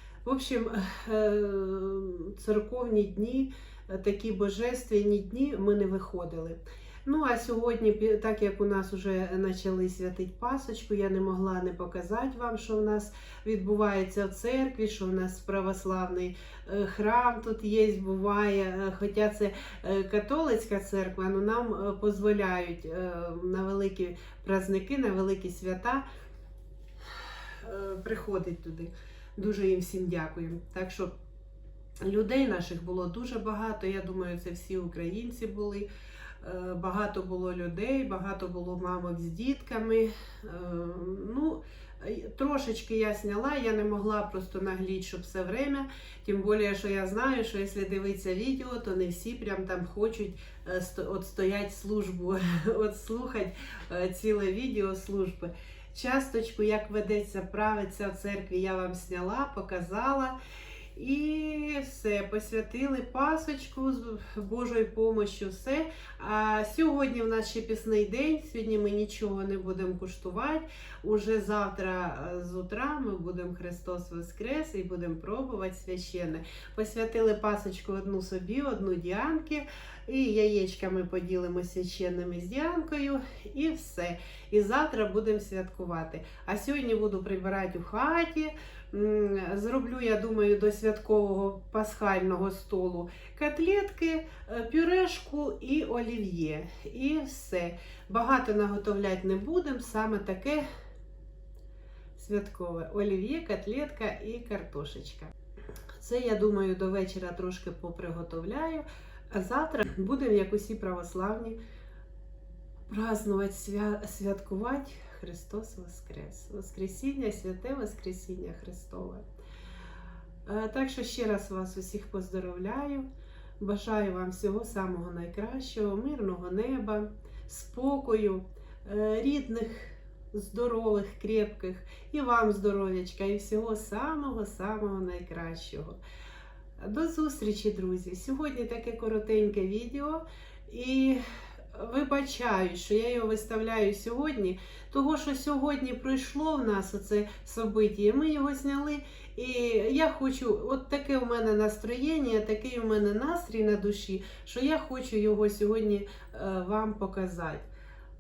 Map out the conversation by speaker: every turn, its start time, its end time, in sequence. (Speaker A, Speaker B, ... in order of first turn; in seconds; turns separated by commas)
Speaker A: 0.2-26.1, Speaker A: 27.6-31.1, Speaker A: 32.0-35.9, Speaker A: 36.4-60.4, Speaker A: 61.0-100.7, Speaker A: 102.2-105.3, Speaker A: 106.0-111.6, Speaker A: 112.9-119.2, Speaker A: 120.5-123.1, Speaker A: 123.6-136.0, Speaker A: 136.8-141.2, Speaker A: 141.7-157.7